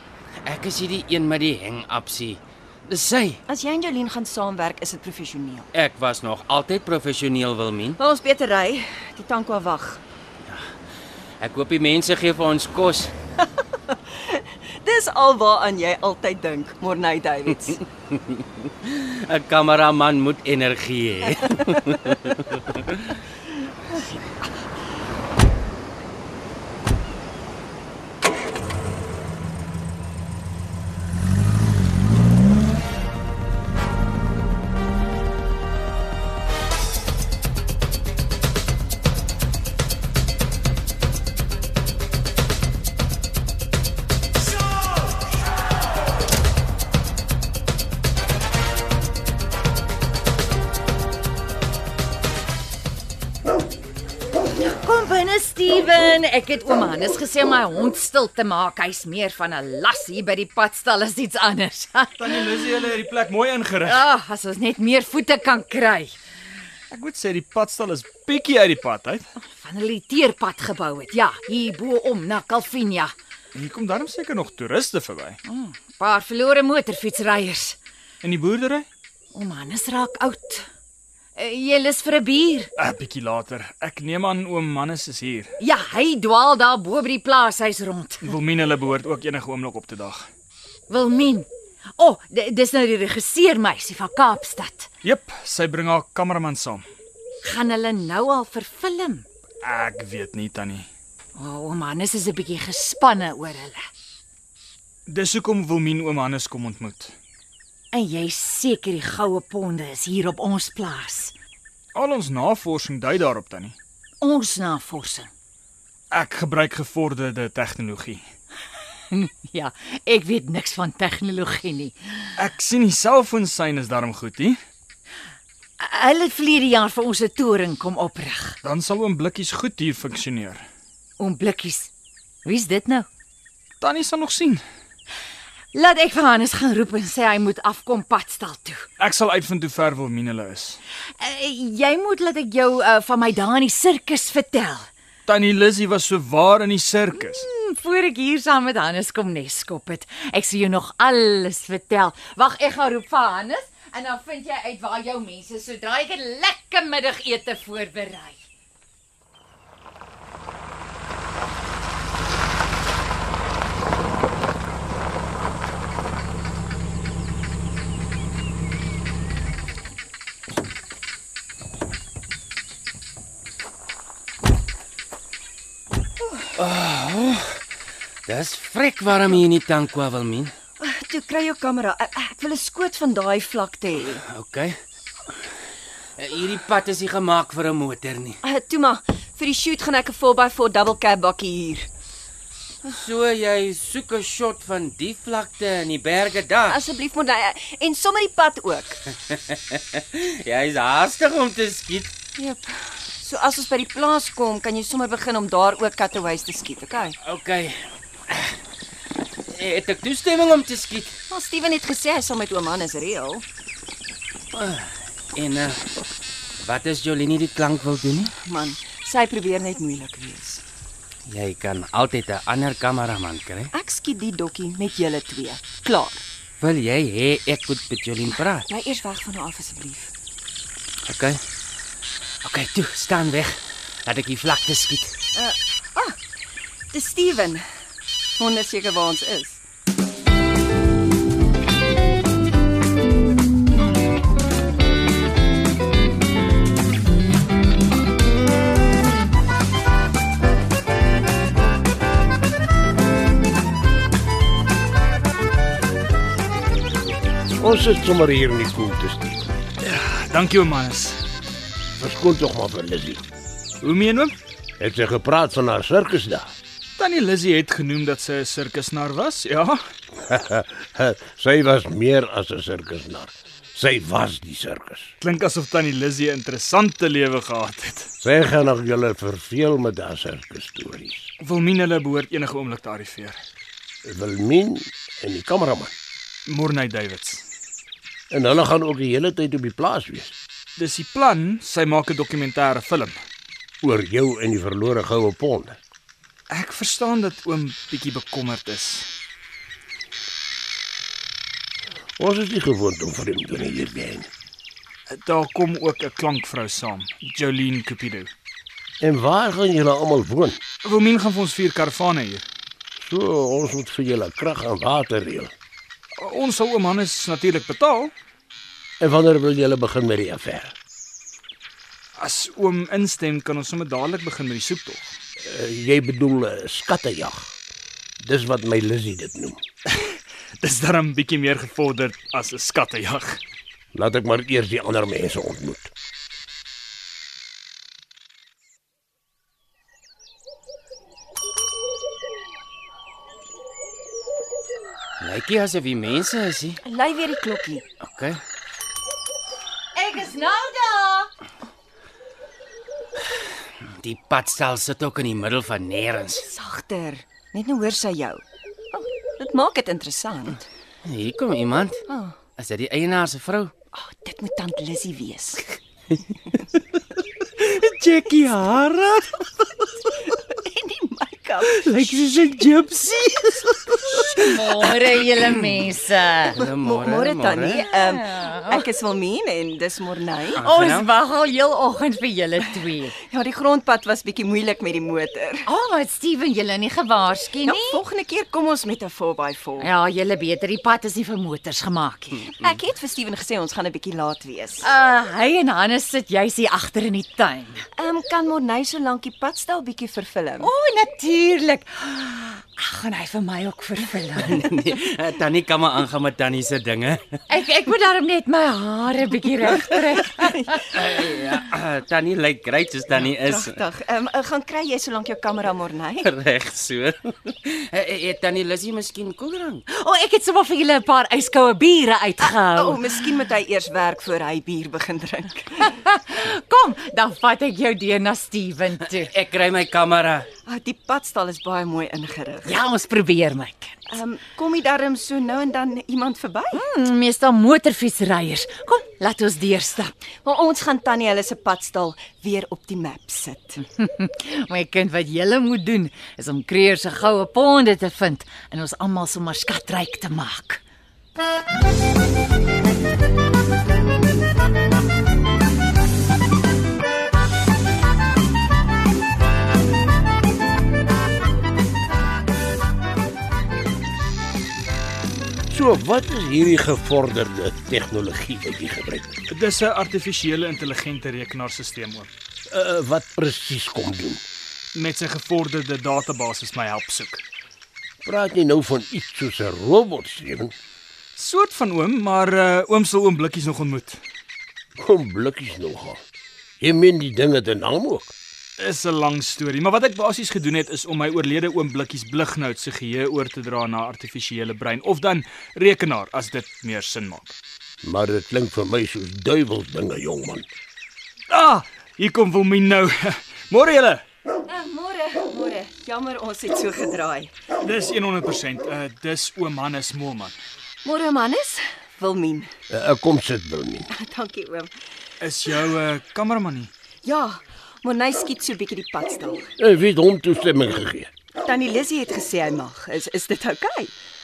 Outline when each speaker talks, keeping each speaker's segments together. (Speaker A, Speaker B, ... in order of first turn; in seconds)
Speaker A: 0.4-3.4, 5.7-8.0, 11.4-13.1, 18.1-22.6, 176.6-177.6, 178.3-180.5, 184.0-184.8, 186.2-188.4, 192.9-196.8, 199.3-202.1, 207.2-208.6, 209.5-211.2, 214.5-215.9, 216.6-218.3, 221.3-223.7, 226.6-228.7, 231.1-231.4, 232.4-235.2, 345.2-346.8, 348.0-348.4, 353.8-356.4, 361.1-362.0, 362.6-363.7, 367.6-369.4, 371.8-374.3, 376.6-377.9, 380.6-381.1, 404.4-407.4, 410.9-413.8, 416.2-419.9, 429.3-430.5
Speaker B: 3.5-5.7, 8.0-10.0, 13.9-17.8, 180.8-184.2, 188.4-191.9, 196.7-199.0, 202.4-207.2, 211.3-213.5, 218.4-220.6, 223.7-226.2, 228.6-230.1, 235.3-236.2, 236.9-237.7, 238.4-239.6, 346.8-347.8, 356.3-360.7, 362.1-362.4, 363.9-365.8, 370.5-371.9, 376.7-380.7, 383.3-385.6, 387.6-389.9, 392.5-394.9, 398.0-400.7, 410.4-410.8, 413.1-416.3, 422.4-425.9, 430.7-432.7, 434.1-436.8, 440.4-443.8, 504.7-507.5, 511.1-512.7, 514.1-514.9, 517.2-519.7, 521.6-524.1
Speaker C: 54.6-62.8, 63.8-66.2, 69.4-73.1, 75.5-77.8, 79.3-80.7, 81.4-82.7, 85.6-88.4, 90.9-94.9, 97.4-99.3, 101.4-103.8, 107.9-111.3, 114.2-115.3, 119.1-122.3, 125.8-128.6, 131.2-131.9, 132.4-133.1, 135.7-138.9, 141.2-144.9, 147.1-158.4, 349.9-351.3, 374.1-376.6, 377.8-378.8, 380.6-383.2, 385.7-388.0, 389.8-392.5, 394.8-397.9, 400.6-404.7, 407.5-410.9, 419.9-423.2, 425.9-429.3, 432.6-434.0, 436.7-440.1, 443.9-450.8
Speaker D: 62.2-64.0, 66.9-69.3, 73.5-75.4, 78.2-78.9, 82.8-85.5, 88.2-90.3, 95.0-96.9, 99.6-100.9, 105.1-107.2, 111.9-113.8, 116.1-118.3, 122.4-124.6, 128.6-130.7, 133.8-134.6, 139.0-140.8, 145.3-147.5, 259.8-261.2, 263.8-264.4, 267.0-269.9, 275.2-278.1, 281.4-283.4, 286.5-287.5, 290.8-293.2, 296.5-299.1, 305.1-308.3, 310.8-312.5, 316.2-318.1, 322.2-325.1, 329.9-333.4, 469.5-472.3, 474.9-477.4, 481.4-484.2, 488.8-497.6, 501.5-504.2, 507.8-510.6, 515.4-516.9
Speaker E: 257.6-259.5, 262.0-263.2, 264.8-266.5, 270.3-275.1, 278.2-281.3, 284.1-285.9, 288.3-290.4, 293.8-295.8, 302.2-304.3, 309.0-310.6, 313.0-315.5, 319.0-320.8, 325.4-327.5, 328.2-329.6, 333.9-335.9, 465.7-469.4, 472.7-474.4, 478.2-480.7, 485.0-486.2, 486.8-488.3, 498.0-500.7, 512.9-514.1, 519.8-521.3